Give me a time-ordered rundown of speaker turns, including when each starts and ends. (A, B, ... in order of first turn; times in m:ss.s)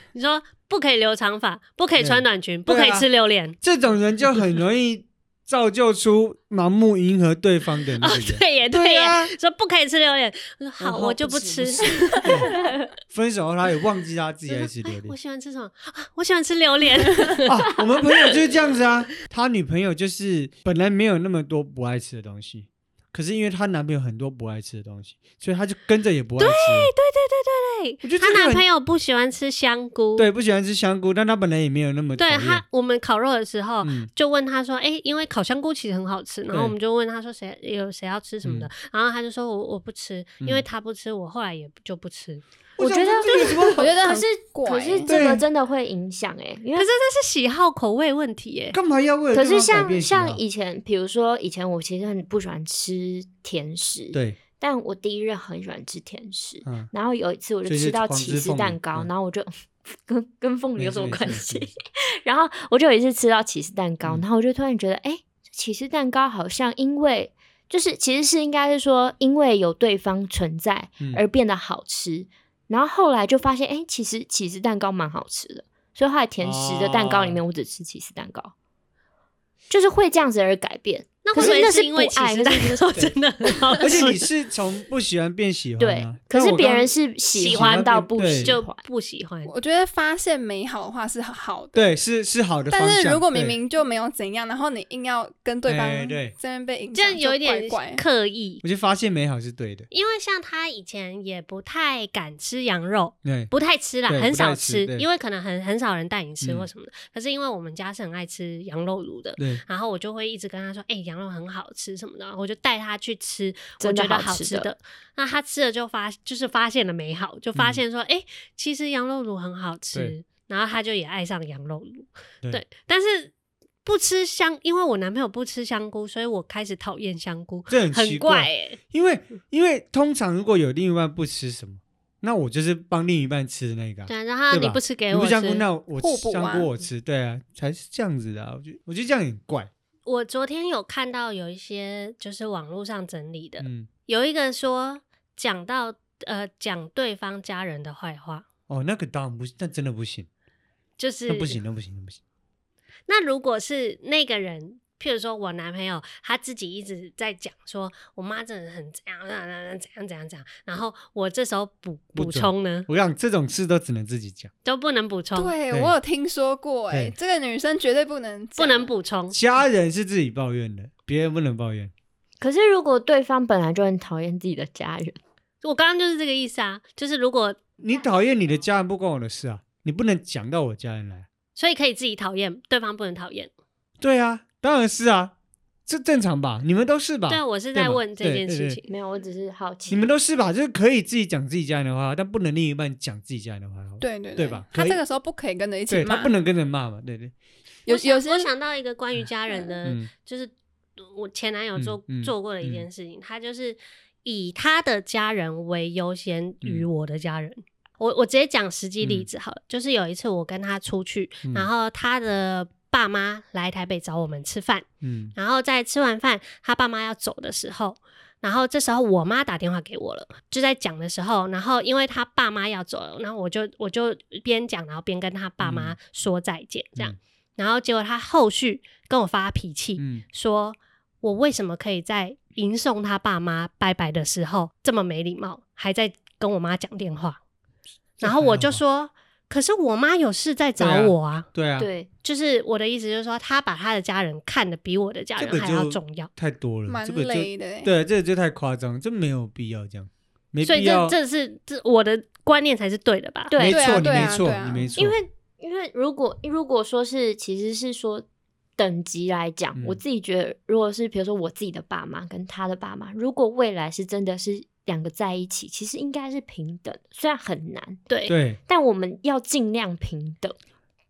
0:00.1-0:03.6 A
0:02.0-0:03.1 B
0:03.6-0:09.3 B
0:08.0-0:12.5 A
0:10.8-0:12.5 B
0:12.5-0:12.9 C
0:13.1-0:15.1 B
0:14.5-0:17.5 A
0:17.4-0:26.9 B
0:26.4-0:30.3 A
0:28.0-0:28.6 B
0:30.2-0:32.6 B
0:32.2-0:42.4 A
0:33.8-0:34.1 B
0:36.5-0:36.7 B
0:38.4-0:38.7 B
0:42.8-0:43.9 B
0:42.8-0:46.9 C
0:43.2-0:43.7 A
0:43.8-0:45.1 D
0:45.1-0:45.4 B
0:46.7-0:48.8 A
0:48.7-0:50.4 B
0:49.3-1:18.5 C
0:56.6-0:56.9 B
0:57.6-0:59.1 B
1:00.8-1:01.7 B
1:16.4-1:17.4 B
1:19.7-1:23.2 C
1:21.2-1:24.2 A
1:21.4-1:21.7 B
1:23.8-1:26.9 B
1:25.8-1:28.8 C
1:27.3-1:29.5 A
1:27.4-1:28.6 B
1:29.4-1:31.9 D
1:31.7-1:33.6 B
1:32.7-1:38.0 D
1:35.7-1:36.3 B
1:36.9-1:38.6 A
1:38.6-1:39.9 B
1:39.9-2:03.3 A
1:43.2-1:43.5 B
1:44.1-1:45.0 B
1:46.4-1:46.7 B
1:49.4-1:49.6 B
1:53.8-1:54.7 C
1:57.6-1:57.8 B
2:03.8-2:08.8 A
2:07.7-2:19.7 B
2:14.1-2:15.7 A
2:16.0-2:16.7 D
2:20.0-2:28.4 A
2:23.6-2:23.9 B
2:28.7-2:30.3 B
2:31.0-2:31.6 A
2:31.3-2:32.2 B
2:33.1-2:42.9 A
2:42.2-2:44.5 B
2:44.6-2:45.5 A
2:45.4-2:48.9 D
2:48.6-2:49.4 A
2:49.3-2:51.9 B
2:52.4-2:55.2 C
2:55.6-2:57.6 A
2:57.8-3:01.3 B
3:01.6-3:03.5 A
3:04.0-3:05.3 B
3:05.8-3:08.8 B
3:07.3-3:08.9 A
3:08.9-3:10.1 C
3:09.9-3:15.0 B
3:14.0-3:16.3 D
3:15.9-3:17.3 B
3:17.8-3:18.5 D
3:17.9-3:57.4 A
3:19.5-3:19.7 D
3:21.8-3:22.8 B
3:26.6-3:26.9 B
3:29.0-3:29.3 B
3:31.4-3:31.7 B
3:35.0-3:35.3 B
3:45.6-3:46.0 B
3:50.0-3:50.2 B
3:58.2-4:01.5 A
3:58.2-3:58.8 B
4:00.8-4:01.9 B
4:01.8-4:02.1 C
4:02.2-4:06.3 A
4:05.4-4:11.2 B
4:06.9-4:07.9 D
4:10.6-4:13.6 A
4:13.5-4:14.3 C
4:13.6-4:15.2 B
4:13.6-4:15.0 D
4:14.9-4:18.2 C
4:18.8-4:28.0 C
4:19.7-4:20.0 B
4:28.1-4:28.4 A
4:28.3-4:28.6 B
4:28.7-4:30.6 C